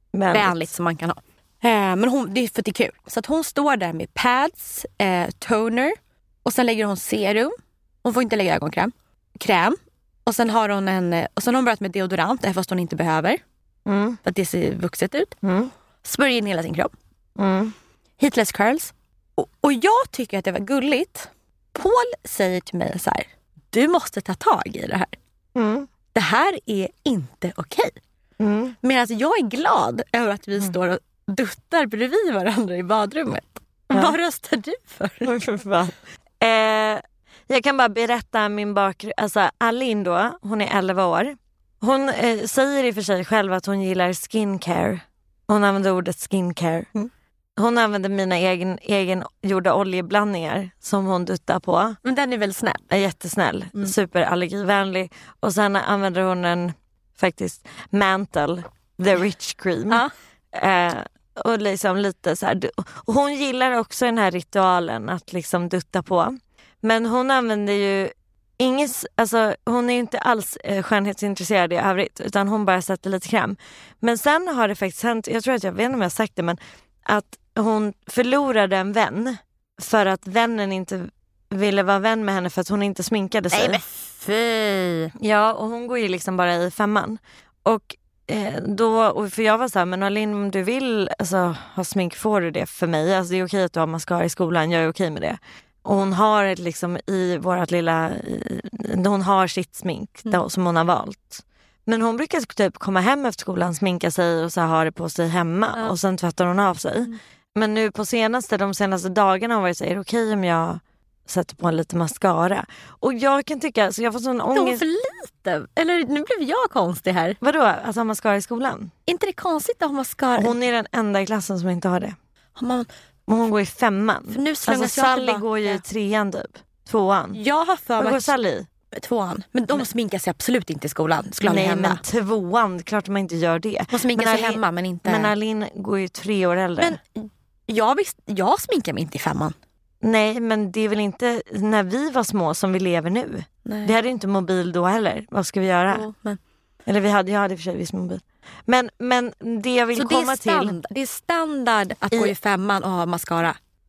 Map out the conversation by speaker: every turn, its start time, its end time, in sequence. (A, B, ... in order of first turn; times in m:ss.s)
0:00.1-0:00.5 A
0:00.3-0:13.4 B
0:13.8-0:14.2 A
0:14.2-0:15.4 B
0:15.4-0:15.7 A
0:16.0-0:16.9 B
0:17.4-0:17.7 A
0:18.2-0:25.1 B
0:25.5-0:25.9 A
0:26.1-0:28.0 B
0:28.4-0:28.8 A
0:28.8-0:35.3 B
0:35.2-0:46.9 A
0:47.6-0:52.0 A
0:52.0-0:52.8 B
0:52.9-1:23.8 A
1:23.5-1:25.1 B
1:25.2-1:54.8 A
1:54.5-1:57.4 B
1:57.4-1:58.9 A
1:59.1-2:00.5 B
2:00.4-2:02.2 A
2:02.6-2:02.9 B
2:03.3-2:07.4 A
2:04.3-2:05.8 B
2:07.3-2:08.3 B
2:08.0-2:08.7 A
2:08.9-2:12.0 B
2:11.4-2:17.0 A
2:13.9-2:15.3 B
2:16.8-2:19.6 B
2:20.0-2:26.1 A
2:23.6-2:24.0 B
2:25.9-2:26.4 B
2:26.9-2:30.8 A
2:29.9-2:33.6 B